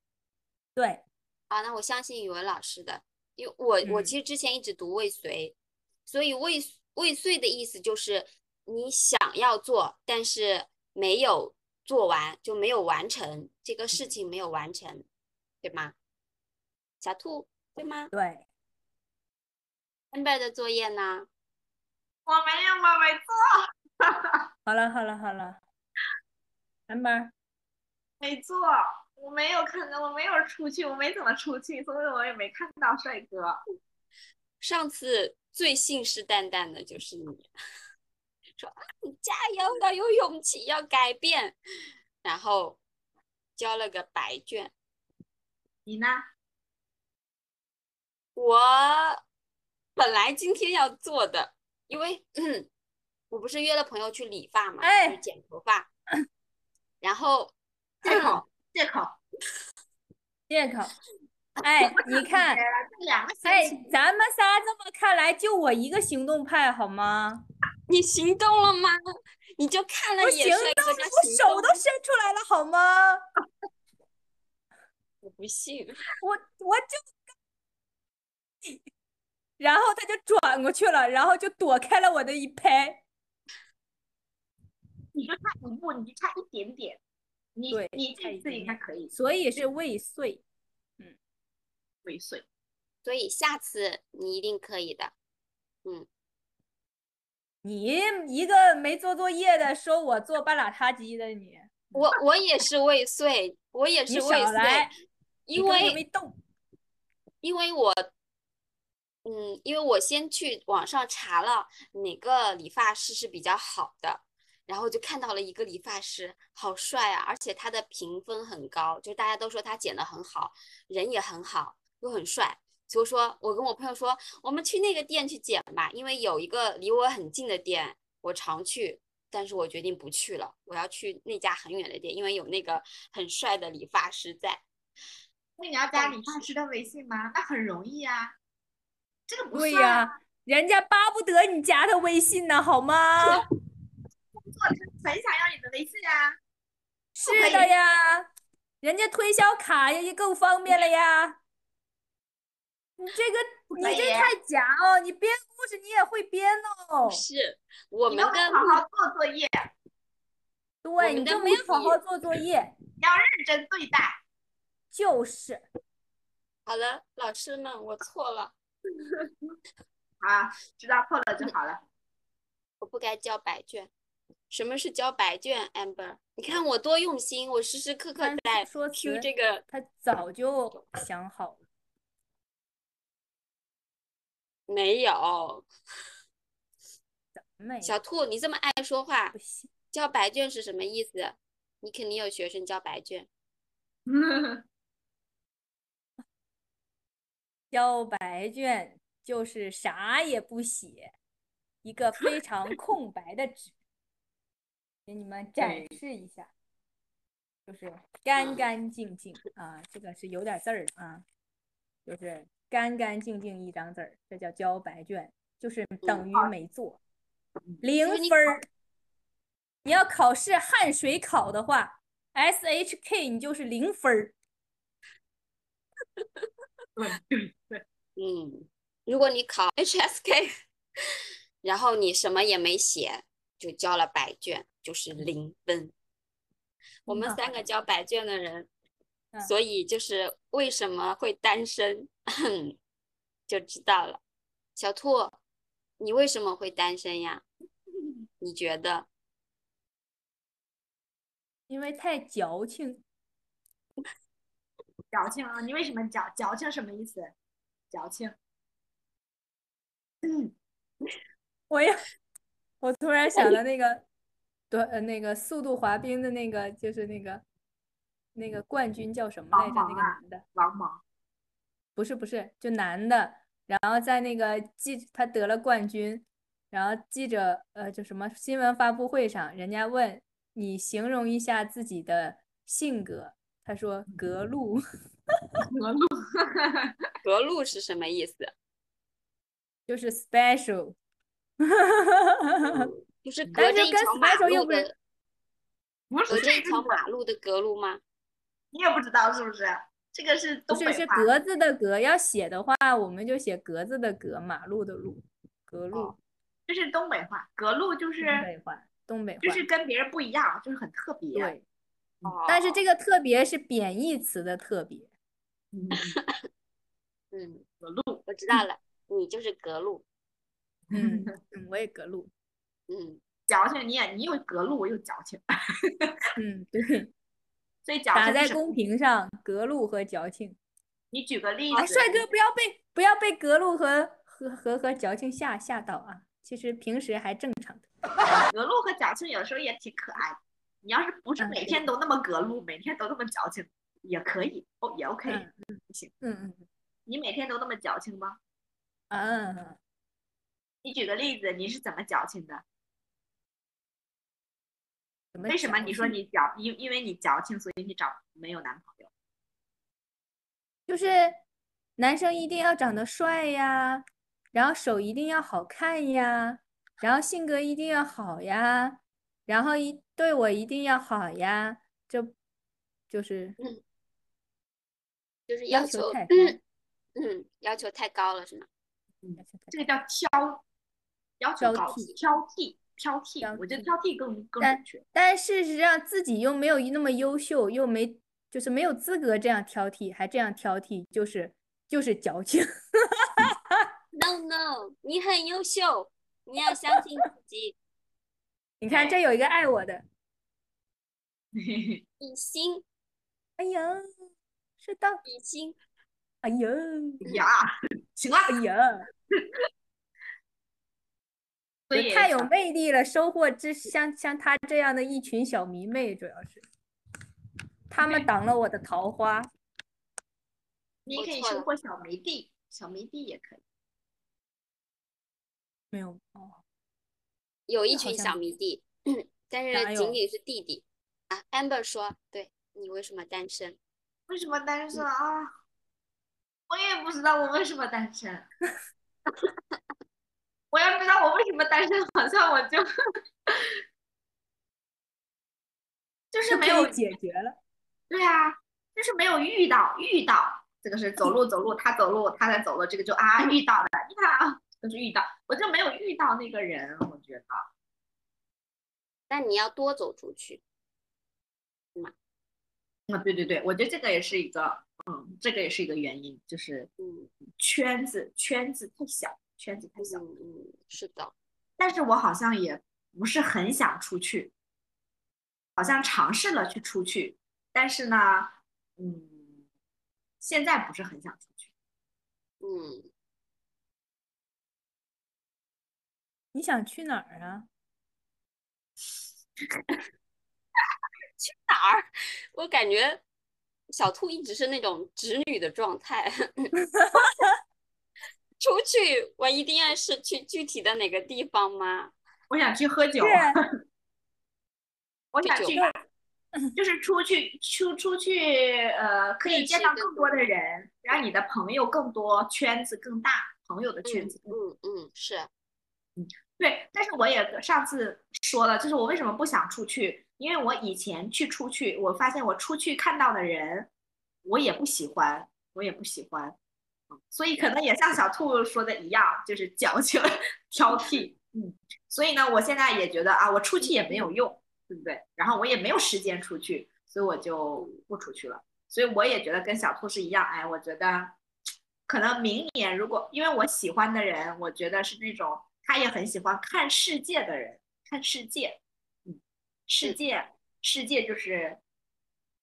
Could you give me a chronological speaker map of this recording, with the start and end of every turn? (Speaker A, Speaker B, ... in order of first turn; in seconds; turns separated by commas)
Speaker A: 0.8-1.0, Speaker B: 1.5-15.1, Speaker A: 3.8-4.1, Speaker B: 15.6-15.9, Speaker B: 17.0-18.1, Speaker A: 18.1-18.4, Speaker B: 20.1-21.3, Speaker C: 22.3-23.5, Speaker C: 24.0-24.4, Speaker A: 24.7-25.6, Speaker A: 26.9-27.3, Speaker C: 28.2-33.6, Speaker B: 34.6-37.5, Speaker B: 38.6-41.6, Speaker B: 42.2-42.8, Speaker B: 43.6-44.7, Speaker C: 45.9-46.3, Speaker B: 48.4-49.2, Speaker B: 50.0-52.7, Speaker B: 53.3-55.9, Speaker A: 54.8-55.2, Speaker B: 57.0-58.4, Speaker C: 58.0-59.2, Speaker A: 60.5-60.9, Speaker A: 61.6-62.6, Speaker C: 61.8-63.8, Speaker A: 63.5-67.4, Speaker B: 67.9-69.0, Speaker B: 69.6-71.8, Speaker A: 70.2-73.3, Speaker B: 75.2-76.0, Speaker A: 76.2-77.2, Speaker A: 79.6-83.0, Speaker C: 85.1-87.0, Speaker C: 87.6-89.1, Speaker A: 87.7-90.4, Speaker C: 92.0-92.5, Speaker B: 93.0-95.1, Speaker A: 97.6-101.7, Speaker B: 101.9-104.9, Speaker A: 104.1-104.9, Speaker B: 105.5-106.0, Speaker A: 105.5-106.4, Speaker B: 107.4-108.1, Speaker B: 109.2-134.6, Speaker C: 135.6-138.4, Speaker B: 135.9-136.4, Speaker C: 139.3-140.1, Speaker A: 139.5-143.4, Speaker C: 144.4-146.4, Speaker A: 147.2-148.3, Speaker C: 147.3-147.7, Speaker A: 148.8-151.4, Speaker A: 153.0-157.2, Speaker C: 153.8-154.3, Speaker B: 157.0-158.8, Speaker C: 158.1-159.7, Speaker A: 160.8-162.7, Speaker B: 161.0-162.0, Speaker C: 163.0-164.2, Speaker A: 164.9-165.6, Speaker B: 166.7-168.5, Speaker C: 170.2-171.8, Speaker B: 172.8-173.9, Speaker B: 174.5-179.6, Speaker A: 178.2-181.6, Speaker B: 184.7-185.7, Speaker A: 187.4-188.0, Speaker B: 187.8-189.4, Speaker A: 189.3-189.7, Speaker B: 189.9-193.3, Speaker C: 194.1-194.6, Speaker A: 197.7-201.1, Speaker A: 201.8-203.7, Speaker A: 205.1-206.5, Speaker C: 205.6-206.0, Speaker A: 207.7-211.2, Speaker B: 208.4-208.6, Speaker A: 212.1-217.0, Speaker B: 216.0-216.3, Speaker A: 217.8-218.6, Speaker B: 218.0-218.6, Speaker A: 219.8-224.4, Speaker C: 227.0-227.8, Speaker B: 228.2-230.5, Speaker B: 231.6-235.9, Speaker B: 237.1-238.7, Speaker A: 237.1-237.6, Speaker B: 239.4-242.8, Speaker B: 243.5-244.2, Speaker B: 244.8-245.4, Speaker B: 246.0-247.4, Speaker B: 248.4-249.1, Speaker A: 251.7-253.0, Speaker C: 255.1-257.3, Speaker C: 257.9-258.4, Speaker C: 260.2-260.5, Speaker A: 261.7-262.1, Speaker A: 262.8-264.1, Speaker A: 264.7-267.4, Speaker A: 268.4-270.4, Speaker C: 269.5-271.0, Speaker A: 272.0-284.8, Speaker C: 285.7-287.1, Speaker B: 287.2-288.5, Speaker A: 289.9-291.0, Speaker A: 291.6-292.9, Speaker B: 292.6-294.9, Speaker A: 293.6-294.9, Speaker C: 296.1-297.0, Speaker B: 296.3-298.0, Speaker C: 298.7-301.3, Speaker A: 300.7-306.1, Speaker C: 306.7-308.5, Speaker A: 308.2-309.6, Speaker C: 309.4-311.5, Speaker A: 311.3-311.6, Speaker B: 312.2-312.8, Speaker A: 312.5-315.1, Speaker C: 315.7-316.2, Speaker B: 315.9-316.4, Speaker B: 317.3-317.6, Speaker C: 317.8-318.2, Speaker B: 318.3-320.1, Speaker C: 320.9-321.4, Speaker A: 320.9-322.3, Speaker B: 322.9-323.2, Speaker C: 323.5-326.2, Speaker A: 326.4-327.1, Speaker C: 327.9-328.8, Speaker A: 328.1-330.6, Speaker C: 331.1-332.2, Speaker A: 331.7-337.9, Speaker C: 338.4-346.1, Speaker A: 341.4-341.8, Speaker A: 345.3-346.7, Speaker C: 347.1-348.4, Speaker A: 349.1-349.8, Speaker C: 350.8-352.6, Speaker A: 355.3-356.2, Speaker C: 355.5-359.1, Speaker A: 360.9-361.4, Speaker A: 362.0-372.3, Speaker A: 373.1-373.6, Speaker B: 375.5-376.6, Speaker A: 375.7-376.6, Speaker B: 377.2-378.7, Speaker C: 379.2-380.6, Speaker A: 379.4-379.9, Speaker C: 381.4-385.0, Speaker A: 381.6-382.2, Speaker A: 383.4-383.9, Speaker A: 384.6-392.7, Speaker A: 393.2-393.8, Speaker B: 394.1-397.8, Speaker A: 396.7-397.0, Speaker A: 398.8-400.0, Speaker B: 398.9-399.2, Speaker C: 401.6-402.0, Speaker B: 402.2-402.9, Speaker A: 403.6-404.1, Speaker A: 404.8-405.2, Speaker B: 405.2-405.8, Speaker A: 406.4-407.2, Speaker C: 407.2-408.6, Speaker A: 408.5-409.1, Speaker C: 411.9-412.5, Speaker A: 411.9-416.6, Speaker A: 417.9-419.5, Speaker C: 418.0-418.3, Speaker C: 421.1-423.6, Speaker B: 421.1-421.7, Speaker A: 425.9-426.6, Speaker B: 427.7-433.8, Speaker A: 427.9-428.5, Speaker A: 429.7-430.2, Speaker C: 434.3-435.5, Speaker C: 436.7-438.5, Speaker C: 440.7-442.9, Speaker C: 446.3-447.0, Speaker A: 446.5-447.6, Speaker C: 448.1-457.6, Speaker B: 459.3-460.6, Speaker C: 463.1-466.9, Speaker B: 467.0-467.3, Speaker C: 467.6-470.2, Speaker B: 470.0-471.3, Speaker C: 471.8-474.5, Speaker C: 475.8-479.6, Speaker C: 480.4-481.7, Speaker B: 482.6-483.1, Speaker A: 486.5-487.7, Speaker B: 491.4-493.2, Speaker B: 493.9-496.7, Speaker A: 496.9-497.5, Speaker B: 498.6-502.1, Speaker C: 502.5-503.6, Speaker A: 503.2-503.6, Speaker C: 505.3-506.0, Speaker B: 505.4-505.8, Speaker C: 506.8-514.6, Speaker B: 509.4-510.5, Speaker B: 514.0-515.5, Speaker C: 516.2-523.9, Speaker C: 524.5-526.6, Speaker C: 527.3-541.4, Speaker B: 533.8-534.3, Speaker C: 542.1-551.8